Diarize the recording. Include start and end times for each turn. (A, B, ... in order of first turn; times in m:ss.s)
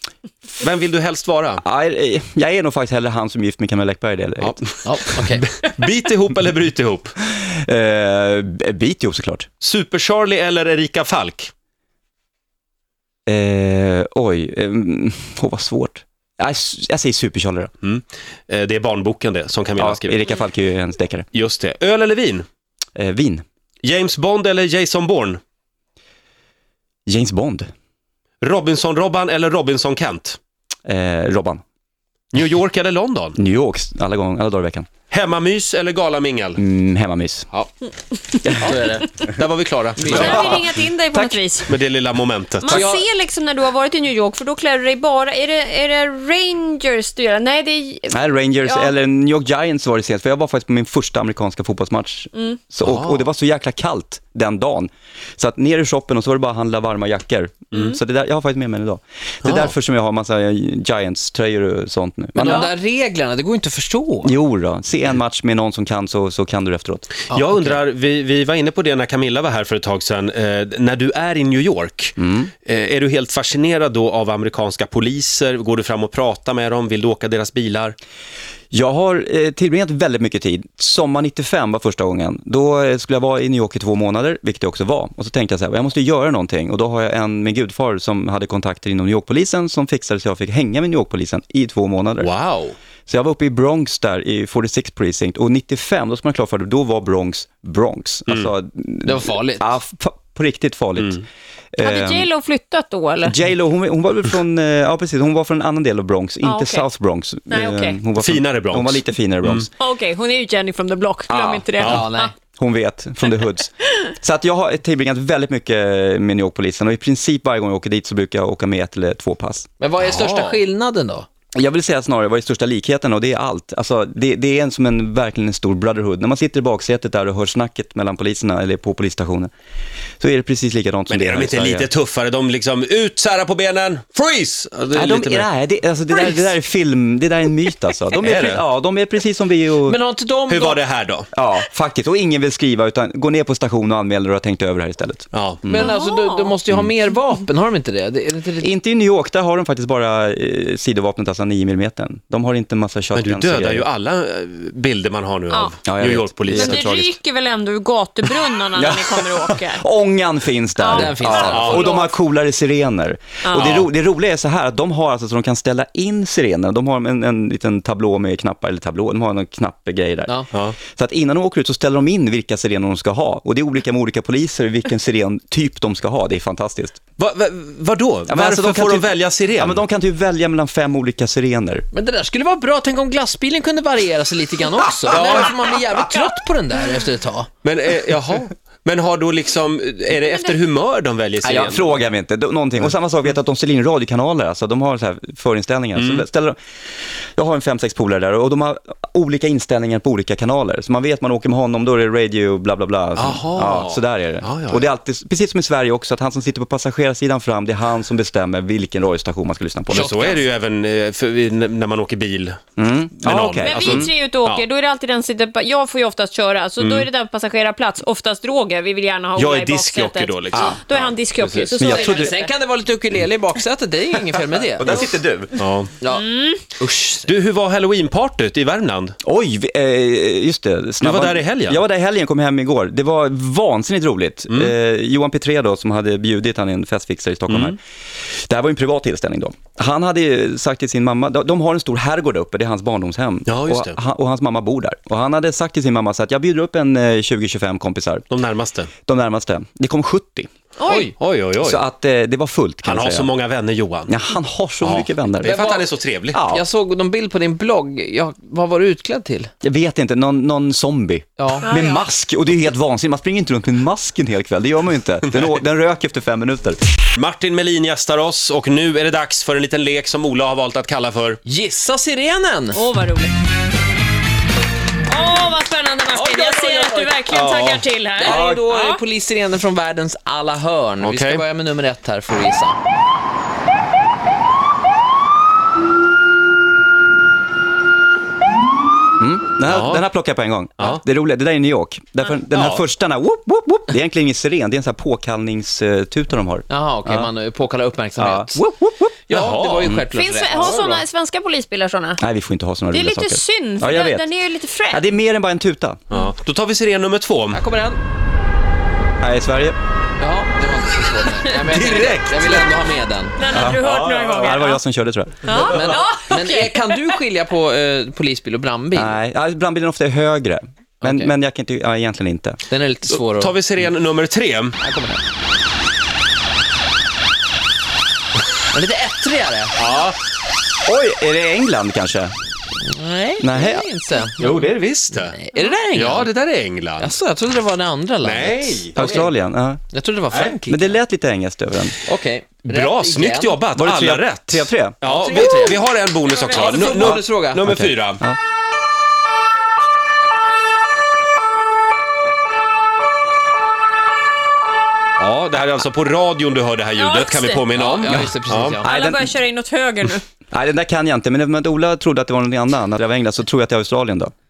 0:00.5-0:01.6 A
0:01.6-0:04.8 B
0:04.8-0:05.4 C
0:05.4-0:07.2 A
0:07.2-0:09.5 B
0:09.6-0:11.5 A
0:13.3-0:17.7 B
0:17.8-0:20.2 A
0:19.8-0:21.3 B
0:21.3-0:22.4 A
0:23.0-0:23.4 B
0:23.8-0:25.4 A
0:27.1-0:27.7 B
0:28.4-0:30.4 A
0:30.8-0:31.6 B
0:32.3-0:33.4 A
0:33.4-0:34.9 B
0:35.1-0:36.6 A
0:36.6-0:37.5 B
0:38.4-0:38.8 B
0:38.6-0:39.2 C
0:39.4-0:40.1 A
0:40.0-0:40.6 C
0:40.0-0:41.4 B
0:40.1-0:41.7 D
0:41.7-0:42.7 A
0:42.6-0:48.9 D
0:42.7-0:43.0 C
0:48.1-1:02.7 B
0:52.3-0:52.6 D
0:52.8-0:53.3 A
1:02.3-1:04.3 C
1:02.4-1:02.7 D
1:04.2-1:07.1 B
1:07.3-1:07.8 C
1:07.3-1:12.1 A
1:12.2-1:12.5 B
1:12.6-1:18.0 A
1:18.7-1:32.3 B
1:32.2-1:32.7 A
1:33.1-1:41.2 B
1:39.0-1:39.8 C
1:41.7-1:42.3 B
1:41.8-1:43.4 D
1:43.2-1:49.7 B
1:46.4-1:46.9 D
1:47.5-1:48.1 D
1:48.2-1:49.6 A
1:49.7-1:52.3 D
1:51.3-1:59.7 B
1:51.8-1:52.3 C
1:59.8-2:01.3 C
2:00.0-2:00.5 A
2:01.5-2:09.5 B
2:10.2-2:11.9 B
2:11.1-2:15.5 A
2:14.9-2:20.0 B
2:18.2-2:18.6 A
2:19.8-2:20.8 C
2:20.5-2:21.3 A
2:21.3-2:26.0 B
2:25.3-2:25.6 A
2:25.6-2:28.7 C
2:25.7-2:26.5 D
2:28.6-2:33.8 B
2:33.1-2:36.8 A
2:35.5-2:35.9 D
2:35.8-2:37.2 B
2:36.5-2:39.8 D
2:38.7-2:57.0 B
2:40.8-2:42.1 D
2:40.9-2:42.0 C
2:43.4-2:43.8 D
2:57.2-2:59.8 A
2:58.3-3:01.8 B
3:01.9-3:07.5 C
3:07.6-3:11.8 A
3:11.4-3:16.6 B
3:16.0-3:16.2 A
3:17.4-3:30.2 B
3:23.2-3:24.8 A
3:29.9-3:32.6 A
3:30.0-3:30.4 C
3:32.8-3:34.1 B
3:33.2-3:34.6 A
3:33.6-3:42.5 D
3:39.4-3:40.5 A
3:40.5-3:40.8 B
3:41.8-3:42.3 B
3:41.8-3:45.0 C
3:44.8-3:45.6 B
3:45.6-3:45.9 A
3:46.0-3:47.3 C
3:46.0-3:46.6 D
3:47.3-3:49.1 A
3:49.2-3:57.8 B
3:51.0-3:51.8 A
3:54.5-3:54.7 A
3:57.5-3:57.8 A
3:58.5-4:08.2 B
4:03.5-4:04.0 A
4:08.3-4:08.9 A
4:09.0-4:10.5 B
4:10.8-4:11.1 D
4:10.8-4:11.1 C
4:11.2-4:11.8 A
4:11.6-4:13.3 B
4:12.9-4:14.1 A
4:14.1-4:15.7 B
4:14.8-4:16.4 A
4:15.4-4:15.9 C
4:16.3-4:16.6 B
4:16.4-4:19.5 C
4:19.6-4:26.8 B
4:21.4-4:21.7 C
4:21.6-4:22.0 D
4:27.2-4:31.4 A
4:31.4-4:32.8 C
4:32.7-4:33.3 D
4:35.1-4:39.0 D
4:36.1-4:37.3 C
4:38.2-4:42.8 C
4:38.2-4:38.6 B
4:41.0-4:41.4 A
4:49.2-4:57.3 B
4:49.7-4:50.0 A
4:56.7-4:58.6 C
4:58.2-4:59.2 B
4:59.3-4:59.8 A
4:59.3-5:01.0 C
4:59.9-5:02.2 D
5:02.2-5:04.3 B
5:02.9-5:05.0 D
5:04.9-5:06.0 B
5:06.2-5:07.6 A
5:07.5-5:08.0 C
5:09.2-5:09.8 B
5:10.2-5:13.4 C
5:11.6-5:12.3 A
5:13.4-5:14.8 D
5:13.5-5:15.8 B
5:15.4-5:16.9 D
5:15.6-5:19.2 C
5:18.9-5:22.6 B
5:21.0-5:21.3 C
5:22.7-5:23.6 C
5:23.1-5:24.8 A
5:24.8-5:25.2 C
5:28.7-5:29.8 C
5:29.8-5:30.2 A
5:30.8-5:32.3 B
5:32.8-5:34.7 C
5:33.4-5:33.9 B
5:34.4-5:35.4 A
5:35.2-5:36.3 C
5:35.9-5:37.1 A
5:37.0-5:39.3 C
5:38.2-5:39.0 A
5:39.0-5:39.8 B
5:39.9-5:41.0 C
5:40.7-5:42.0 B
5:42.0-5:43.7 C
5:42.7-5:48.2 A
5:43.8-5:45.6 B
5:45.0-5:45.8 C
5:45.1-5:47.2 D
5:46.4-5:47.8 C
5:46.8-5:48.4 B
5:55.2-5:58.8 A
5:56.9-5:57.7 D
5:57.7-5:58.9 C
5:58.1-5:59.3 B
5:58.8-6:00.2 D
6:00.5-6:04.3 B